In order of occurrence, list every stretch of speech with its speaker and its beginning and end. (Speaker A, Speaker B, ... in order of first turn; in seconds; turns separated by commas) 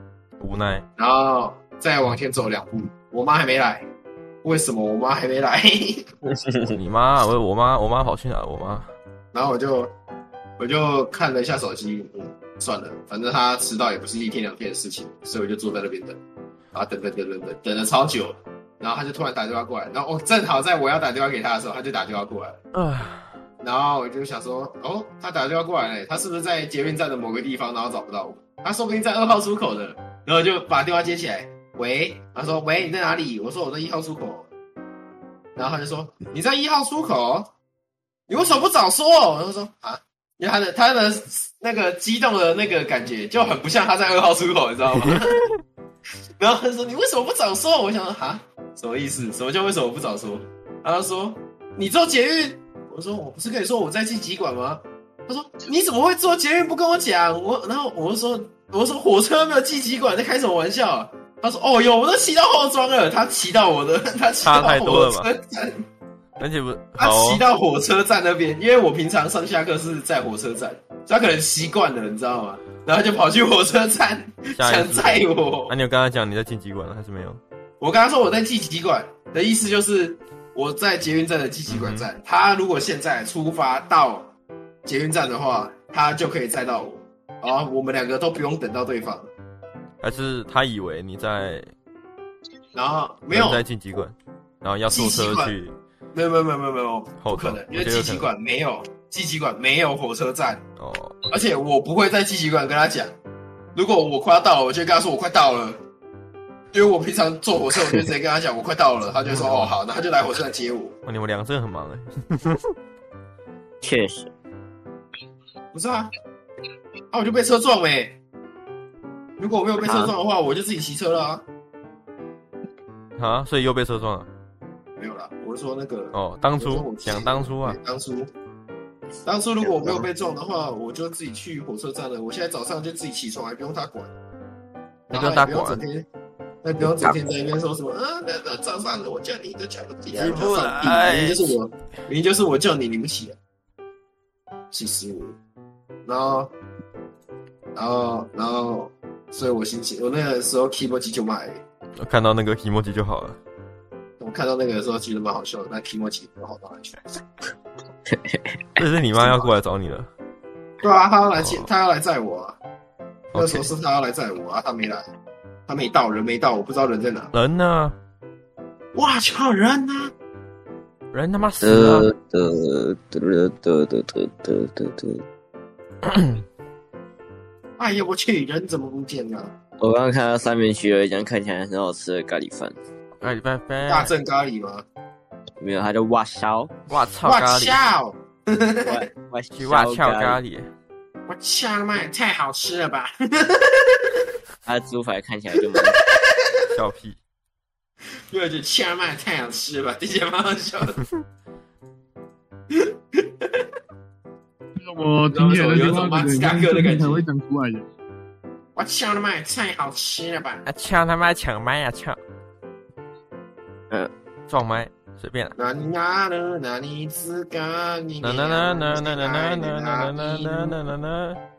Speaker A: 0.4-0.8, Speaker B: 1.0-3.9, Speaker B: 4.4-6.0, Speaker A: 6.7-8.9, Speaker B: 9.3-9.9, Speaker B: 10.6-16.2, Speaker B: 16.7-22.6, Speaker A: 22.7-23.4, Speaker B: 23.6-34.5, Speaker B: 35.5-37.5, Speaker B: 38.3-45.5, Speaker B: 46.4-65.8, Speaker A: 64.4-65.3, Speaker A: 66.4-67.4, Speaker B: 67.0-75.7, Speaker A: 74.5-77.4, Speaker B: 77.8-84.3, Speaker A: 81.7-82.1, Speaker B: 84.8-89.3, Speaker A: 90.0-91.7, Speaker B: 92.7-93.6, Speaker A: 93.3-95.7, Speaker B: 94.9-95.5, Speaker B: 96.1-100.6, Speaker A: 97.2-98.3, Speaker A: 100.8-101.2, Speaker B: 101.3-103.1, Speaker B: 103.7-105.8, Speaker B: 106.7-111.0, Speaker A: 109.2-109.7, Speaker A: 111.0-112.7, Speaker C: 113.8-114.3, Speaker B: 115.7-116.1, Speaker B: 117.1-118.2, Speaker B: 119.4-121.4, Speaker C: 119.8-120.1, Speaker A: 123.2-124.3, Speaker B: 125.0-128.3, Speaker A: 126.1-127.8, Speaker B: 129.2-134.1, Speaker B: 135.1-136.1, Speaker A: 135.1-135.8, Speaker B: 136.6-143.3, Speaker C: 136.8-137.2, Speaker A: 140.2-141.5, Speaker B: 144.7-145.3, Speaker B: 146.0-146.5, Speaker B: 147.7-151.6, Speaker A: 152.0-153.4, Speaker B: 154.2-157.0, Speaker C: 158.1-158.8, Speaker A: 158.8-160.1, Speaker B: 159.2-159.5, Speaker B: 160.8-162.6, Speaker A: 161.4-161.7, Speaker A: 163.3-163.7, Speaker B: 163.3-165.1, Speaker B: 165.7-167.3, Speaker A: 167.3-167.9, Speaker B: 168.9-170.1, Speaker A: 171.1-172.1, Speaker C: 171.6-175.2, Speaker A: 176.0-176.4, Speaker B: 177.8-179.5, Speaker C: 179.8-182.8, Speaker A: 183.2-184.1, Speaker B: 183.9-184.8, Speaker C: 185.6-186.7, Speaker A: 186.9-187.8, Speaker B: 187.2-189.0, Speaker C: 188.8-190.4, Speaker A: 189.6-190.7, Speaker B: 191.3-194.2, Speaker C: 194.6-196.0, Speaker A: 196.7-197.2, Speaker B: 198.3-201.0, Speaker B: 202.7-203.7, Speaker D: 204.8-207.9, Speaker B: 205.3-207.2, Speaker B: 208.7-210.6, Speaker A: 210.7-212.2, Speaker A: 214.5-215.5, Speaker B: 215.6-220.8, Speaker A: 218.2-221.4